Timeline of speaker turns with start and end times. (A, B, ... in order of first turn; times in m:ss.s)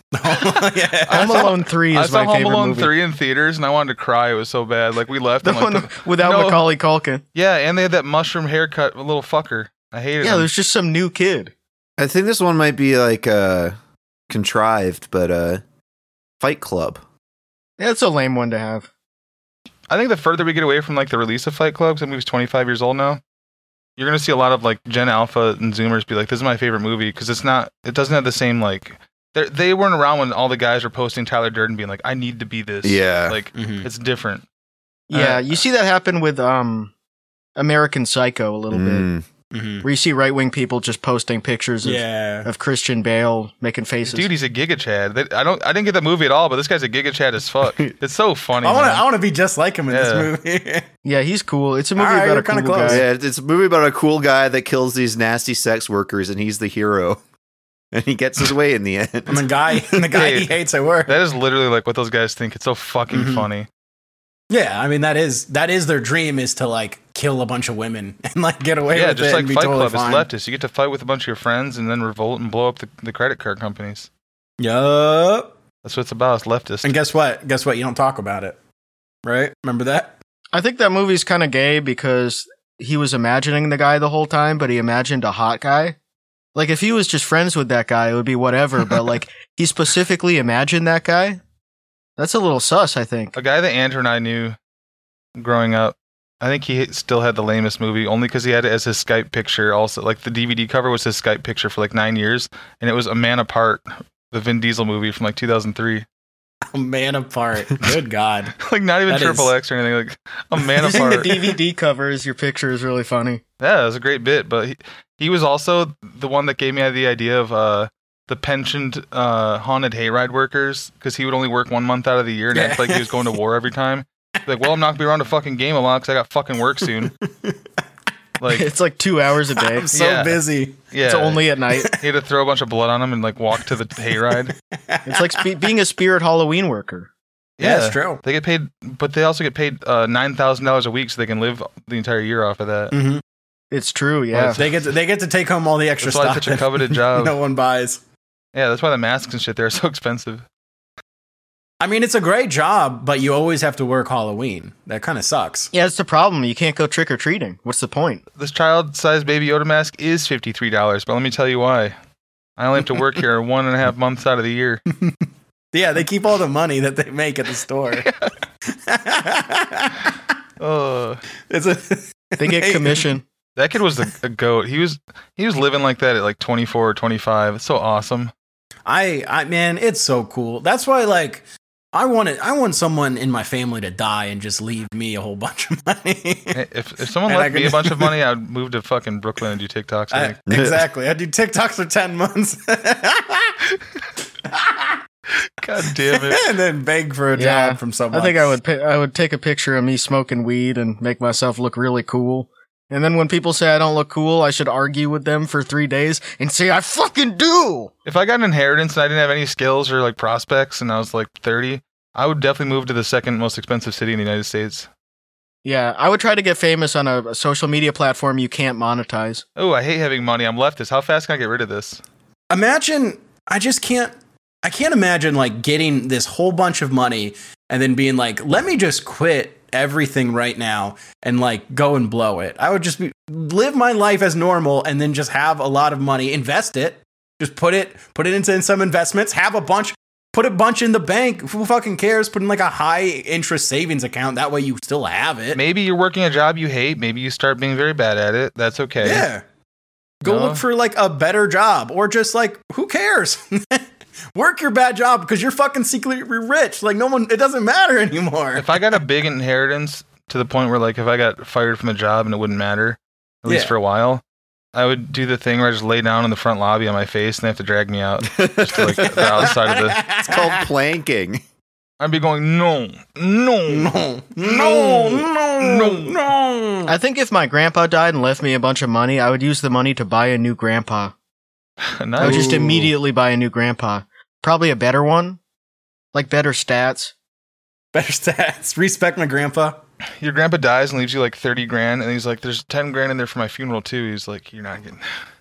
0:00.1-0:01.5 A
0:01.1-0:06.6 B
0:01.1-0:02.9 C
0:05.4-0:07.2 C
0:07.4-0:10.5 B
0:10.2-0:11.5 C
0:12.0-0:13.7 D
0:14.3-0:15.6 D
0:16.4-0:17.0 D
0:17.8-0:18.9 C
0:19.9-0:23.2 B
0:24.0-0:34.4 B
0:32.8-0:33.4 D
0:33.6-0:33.9 A
0:35.1-0:36.9 C
0:35.1-0:35.6 B
0:37.6-0:39.1 C
0:38.7-0:39.3 D
0:39.5-0:39.9 A
0:39.8-0:44.3 C
0:41.8-0:42.5 A
0:44.1-0:49.1 B
0:48.6-0:50.8 A
0:49.9-0:50.3 B
0:51.0-0:53.1 C
0:52.0-0:53.0 A
0:52.8-0:57.2 D
0:57.9-0:59.5 D
0:59.3-1:01.2 A
1:00.2-1:03.7 B
1:03.1-1:03.5 A
1:04.5-1:10.3 A
1:08.9-1:14.1 B
1:14.6-1:15.5 A
1:15.8-1:17.0 B
1:16.8-1:18.6 A
1:19.2-1:20.2 A
1:20.5-1:26.0 C
1:26.6-1:31.4 C
1:32.2-1:33.4 C
1:33.4-1:34.6 B
1:35.4-1:46.0 B
1:46.7-1:49.6 A
1:48.6-1:51.4 B
1:50.8-1:53.4 C
1:51.0-1:51.3 A
1:53.6-2:07.1 B
2:02.5-2:03.3 A
2:06.9-2:07.6 A
2:08.4-2:08.7 B
2:08.5-2:09.9 C
2:09.6-2:10.9 A
2:09.9-2:14.5 B
2:11.0-2:11.9 C
2:14.9-2:15.4 A
2:15.1-2:17.1 C
2:17.6-2:23.0 B
2:17.6-2:18.2 A
2:22.9-2:23.2 A
2:23.7-2:24.7 C
2:24.3-2:24.8 B
2:24.5-2:28.0 A
2:26.0-2:27.4 B
2:28.5-2:30.4 B
2:31.8-2:35.7 A
2:35.7-2:38.2 C
2:38.4-2:42.0 B
2:42.6-2:44.8 B
2:45.7-2:48.1 A
2:48.0-2:48.3 B
2:48.7-2:50.2 A
2:50.6-2:51.2 B
2:51.5-2:53.1 A
2:52.4-2:53.2 C
2:53.6-2:58.3 B
2:58.9-3:06.6 A
3:06.5-3:10.4 B
3:07.3-3:08.1 A
3:10.1-3:13.6 A
3:10.5-3:10.8 D
3:14.4-3:15.0 A
3:15.6-3:16.5 B
3:16.0-3:18.5 A
3:17.4-3:27.9 C
3:28.1-3:34.9 B
3:35.6-3:39.4 C
3:39.6-3:42.0 B
3:42.5-3:44.1 A
3:44.6-4:05.6 A
4:05.6-4:09.3 B
4:09.0-4:09.4 A
4:10.2-4:18.9 A
4:10.2-4:10.6 B
4:18.6-4:24.2 B
4:23.5-4:23.8 A
4:24.7-4:30.0 B
4:28.8-4:29.2 D
4:29.3-4:30.6 A
4:30.2-4:31.4 D
4:32.0-4:33.9 B
4:33.7-4:36.9 A
4:34.4-4:36.2 B
4:36.9-4:41.1 C
4:42.0-4:42.6 B
4:42.2-4:45.4 C
4:42.2-4:42.9 A
4:46.1-4:47.1 C
4:47.9-4:49.8 A
4:50.2-4:55.1 B